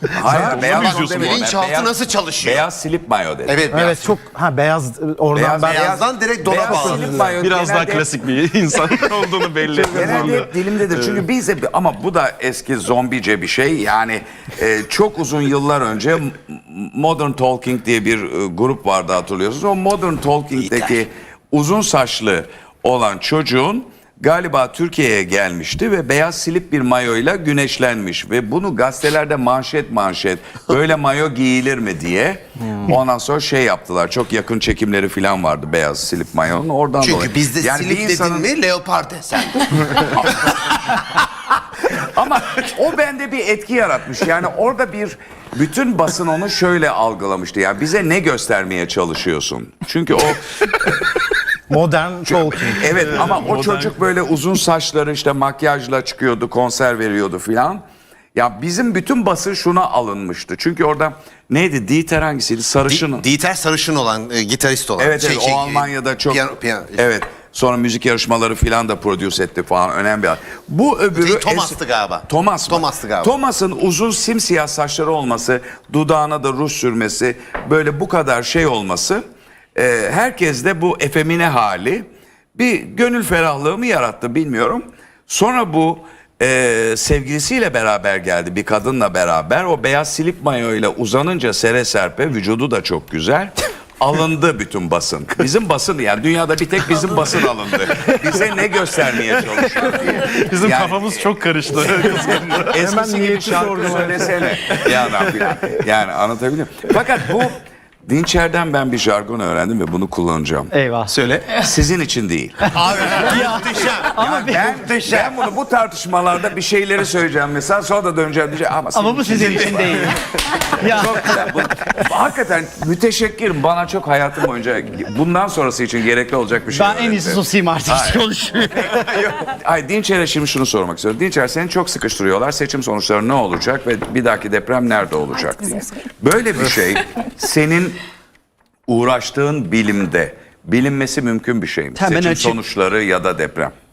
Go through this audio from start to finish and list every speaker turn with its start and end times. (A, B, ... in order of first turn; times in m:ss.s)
0:00.1-0:03.6 A
0:00.3-0:01.4 B
0:00.4-0:02.6 C
0:03.4-0:04.1 C
0:03.7-0:07.3 D
0:05.3-0:08.1 A
0:05.6-0:07.3 C
0:07.4-0:11.2 B
0:09.7-0:38.5 A
0:20.6-0:21.0 C
0:37.0-0:40.6 C
0:40.0-0:41.2 A
0:41.9-0:51.0 A
0:51.7-0:53.0 D
0:52.2-0:57.8 A
0:53.2-0:54.0 B
0:58.3-1:03.2 A
1:02.9-1:07.0 C
1:05.0-1:19.2 A
1:11.1-1:13.3 C
1:19.8-1:50.7 A
1:40.3-1:42.8 B
1:42.8-1:44.4 D
1:44.6-1:45.2 B
1:50.7-1:51.1 E
1:51.1-1:51.6 C
1:51.6-2:00.1 A
1:52.7-1:55.4 C
1:53.2-1:54.8 E
1:58.9-2:01.6 E
2:00.8-2:08.2 A
2:06.7-2:09.0 E
2:08.8-2:18.0 A
2:18.9-2:23.7 A
2:22.0-2:22.6 E